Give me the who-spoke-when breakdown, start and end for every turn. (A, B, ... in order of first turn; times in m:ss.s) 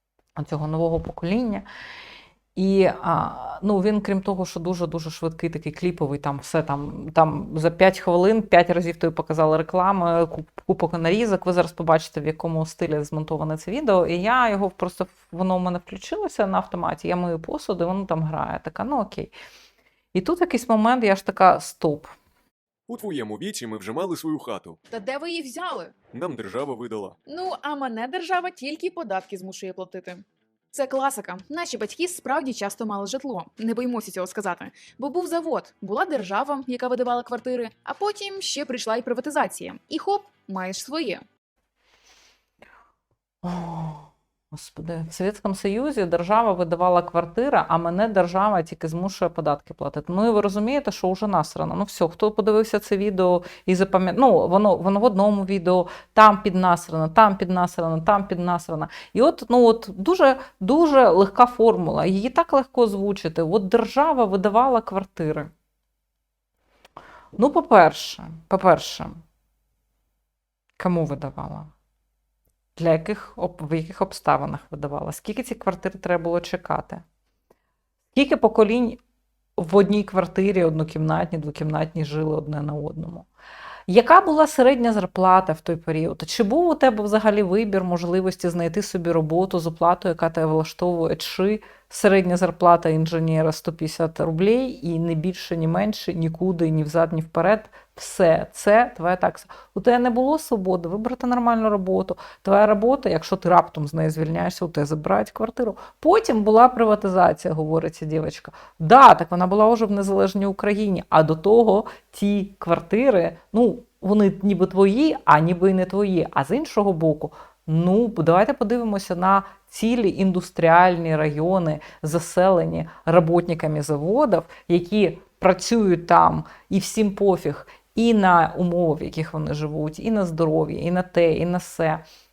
0:00.4-0:01.6 A
0:02.6-0:19.3 A
0:20.1-0:22.2 A
0:22.9-0:24.8 B
0:24.9-0:25.9 C
0:26.1-0:27.2 B
0:27.3-0:41.2 C
0:43.4-1:05.5 A
1:07.4-1:09.2 A
1:10.8-1:11.7 A
1:12.8-1:17.0 A
1:18.1-1:19.0 A
1:19.6-1:23.3 A
1:23.9-2:12.0 A